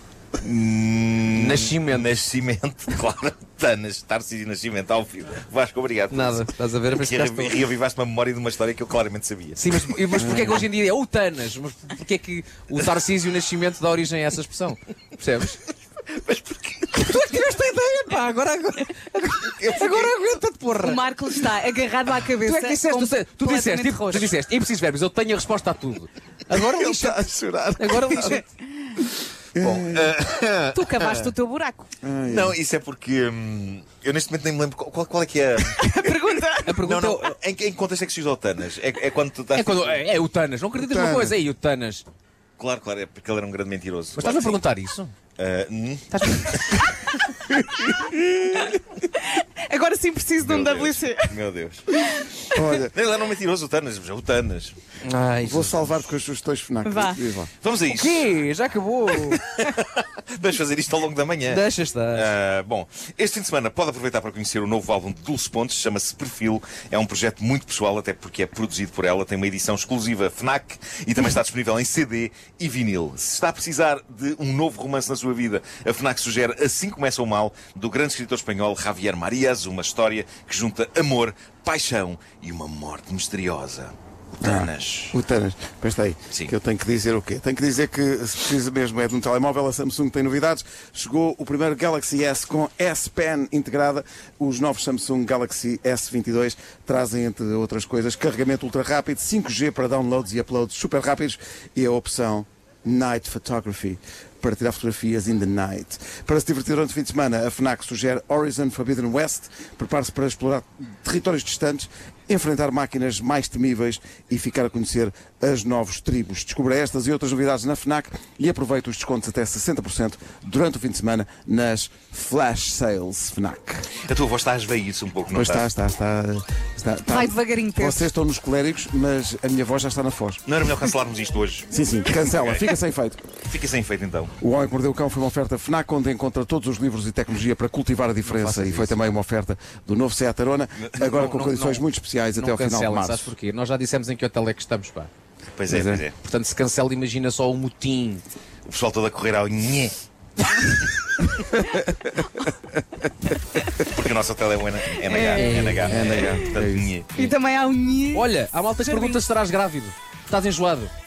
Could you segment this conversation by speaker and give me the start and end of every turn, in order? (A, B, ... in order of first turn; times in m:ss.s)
0:00.4-0:10.6 A
0:01.3-0:02.1 B
0:06.1-0:07.6 B
0:09.6-0:15.6 B
0:10.2-0:10.6 C
0:16.2-0:17.2 A
0:16.9-0:21.1 B
0:19.6-0:20.0 A
0:20.8-0:24.3 D
0:22.4-0:28.4 B
0:26.5-0:28.4 A
0:27.8-0:28.9 D
0:29.6-0:30.1 C
0:29.6-0:31.3 A
0:30.7-0:31.9 D
0:32.0-0:32.6 C
0:32.3-0:36.0 A
0:35.7-0:36.8 D
0:36.6-0:37.3 B
0:36.8-0:40.0 A
0:39.5-0:42.1 B
0:40.8-0:41.4 C
0:42.6-0:44.6 A
0:44.2-0:45.1 B
0:45.4-0:46.6 A
0:46.1-0:46.8 B
0:48.0-0:48.4 A
0:48.7-0:51.4 D
0:50.4-0:51.8 A
0:51.9-0:52.7 D
0:52.5-0:52.9 C
0:52.9-0:54.8 A
0:55.0-0:56.0 B
0:55.4-0:57.5 C
0:56.8-0:57.2 D
0:57.6-0:58.3 A
0:57.9-0:59.4 B
0:59.2-1:25.2 A
1:01.5-1:02.3 B
1:24.4-2:03.9 C
2:04.0-2:05.6 A
2:05.3-2:10.4 C
2:07.1-2:08.0 D
2:10.4-2:12.7 A
2:11.7-2:13.2 C
2:13.5-2:14.4 A
2:14.4-2:23.3 C
2:18.2-2:19.0 B
2:20.8-2:21.2 A
2:21.0-2:25.1 B
2:25.5-2:26.1 A
2:25.7-2:26.0 C
2:26.1-2:28.2 B
2:28.7-2:30.0 A
2:33.8-2:37.2 A
2:35.1-2:36.4 D
2:35.4-2:36.4 B
2:35.8-2:36.9 C
2:37.2-2:38.3 D
2:38.1-2:40.9 B
2:38.8-2:39.2 D